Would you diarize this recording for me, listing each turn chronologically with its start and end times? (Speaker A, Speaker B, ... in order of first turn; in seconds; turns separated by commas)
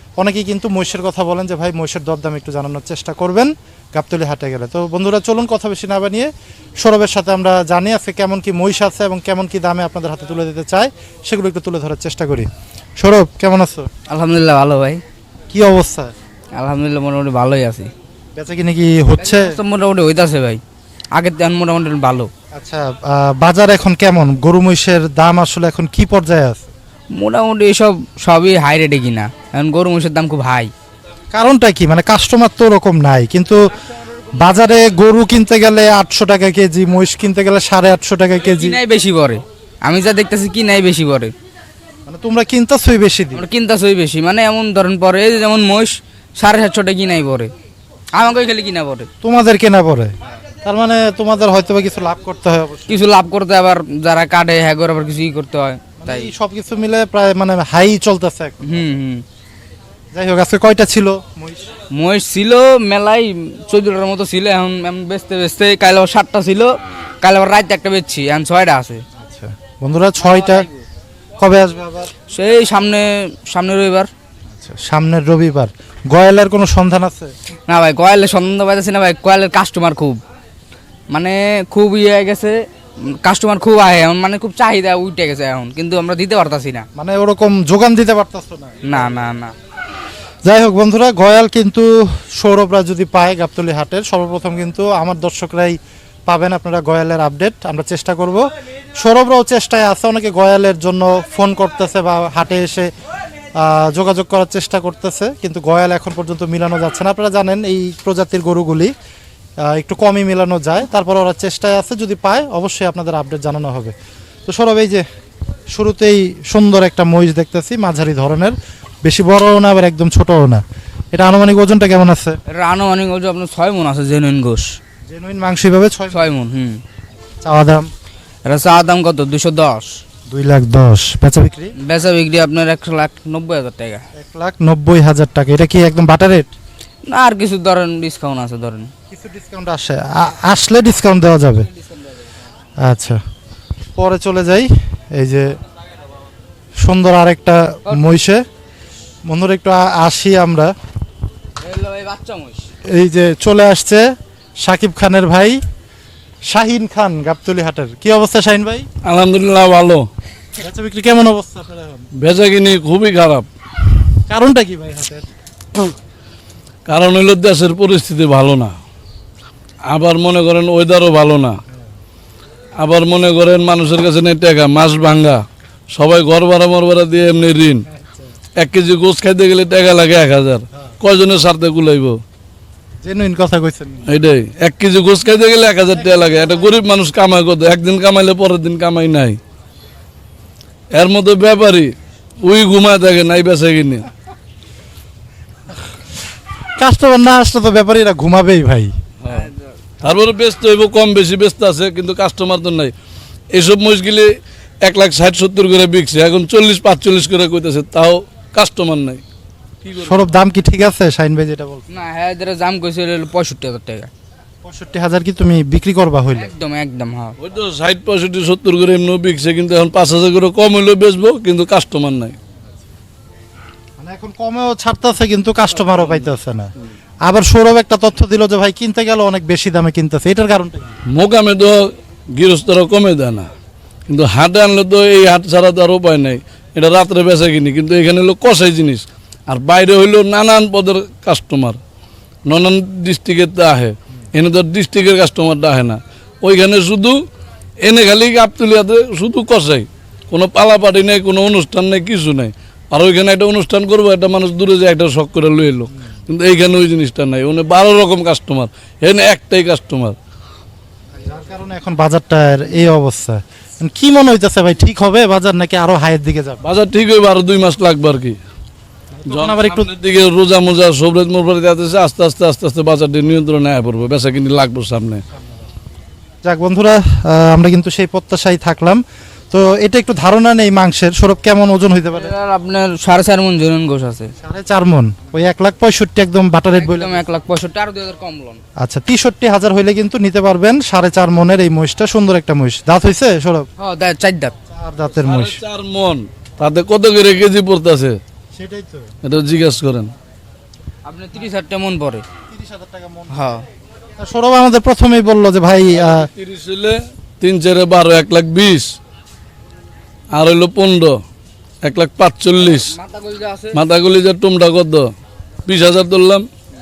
Speaker A: 0.2-13.9, Speaker B: 14.1-15.0, Speaker A: 15.5-16.1, Speaker B: 16.6-17.9, Speaker A: 18.4-19.5, Speaker B: 19.2-20.6, Speaker B: 21.2-22.3, Speaker A: 22.5-26.7, Speaker B: 27.2-30.7, Speaker A: 31.3-33.6, Speaker A: 34.4-38.8, Speaker B: 38.4-41.3, Speaker A: 42.1-43.5, Speaker B: 43.3-47.5, Speaker B: 48.1-49.1, Speaker A: 49.2-53.0, Speaker B: 52.9-56.3, Speaker A: 56.0-58.8, Speaker B: 58.6-59.2, Speaker A: 60.1-61.7, Speaker B: 61.9-69.0, Speaker A: 69.2-70.7, Speaker B: 70.2-70.8, Speaker A: 71.4-72.1, Speaker B: 72.3-74.1, Speaker A: 74.5-77.3, Speaker B: 77.7-80.2, Speaker B: 81.1-82.6, Speaker B: 83.2-86.9, Speaker A: 87.0-89.1, Speaker B: 88.8-89.5, Speaker A: 90.5-102.9, Speaker A: 103.6-108.9, Speaker A: 109.6-113.9, Speaker A: 114.5-115.0, Speaker A: 115.7-122.4, Speaker B: 122.5-124.8, Speaker A: 125.1-126.2, Speaker B: 126.1-126.8, Speaker A: 127.4-127.9, Speaker B: 128.5-130.0, Speaker A: 130.3-131.8, Speaker B: 131.8-134.0, Speaker A: 134.2-136.5, Speaker B: 137.1-138.9, Speaker A: 139.1-141.7, Speaker B: 141.7-142.3, Speaker A: 142.8-143.2, Speaker A: 144.0-145.6, Speaker A: 146.8-148.4, Speaker A: 149.3-150.7, Speaker B: 151.6-152.7, Speaker A: 152.9-154.1, Speaker A: 154.6-155.6, Speaker A: 156.5-158.9, Speaker C: 159.1-160.1, Speaker A: 160.6-162.1, Speaker C: 162.2-163.5, Speaker A: 164.3-165.3, Speaker C: 166.9-168.8, Speaker C: 169.9-171.6, Speaker C: 172.8-175.4, Speaker C: 175.9-177.9, Speaker A: 177.9-178.2, Speaker C: 178.6-182.2, Speaker A: 183.0-184.1, Speaker C: 184.1-189.4, Speaker C: 190.9-191.9, Speaker C: 192.4-194.1, Speaker A: 196.8-198.9, Speaker C: 199.2-199.5, Speaker B: 199.3-199.7, Speaker C: 200.0-202.9, Speaker C: 203.5-204.3, Speaker C: 204.8-209.2, Speaker C: 209.8-210.3, Speaker A: 210.0-212.0, Speaker B: 211.9-214.1, Speaker A: 214.6-216.5, Speaker B: 216.3-217.4, Speaker C: 217.4-222.4, Speaker A: 224.0-226.7, Speaker A: 227.3-230.9, Speaker C: 231.2-233.5, Speaker C: 234.1-241.8, Speaker C: 242.5-247.2, Speaker C: 247.8-260.2, Speaker A: 261.1-266.6, Speaker C: 266.6-268.4, Speaker A: 269.1-269.9, Speaker C: 269.3-275.2, Speaker A: 275.4-275.6, Speaker A: 276.4-282.3, Speaker B: 282.1-284.3, Speaker A: 284.4-287.2, Speaker B: 286.7-288.6, Speaker A: 288.8-293.7, Speaker B: 293.8-294.6, Speaker A: 294.7-295.6, Speaker C: 295.2-298.1, Speaker A: 298.6-299.1, Speaker C: 299.2-300.1, Speaker B: 301.1-302.2, Speaker A: 302.5-303.5, Speaker B: 303.3-303.6, Speaker A: 304.2-306.3, Speaker C: 305.9-308.9, Speaker C: 310.3-311.2, Speaker C: 311.8-312.9, Speaker B: 312.6-313.8, Speaker C: 313.7-315.1, Speaker C: 315.7-316.5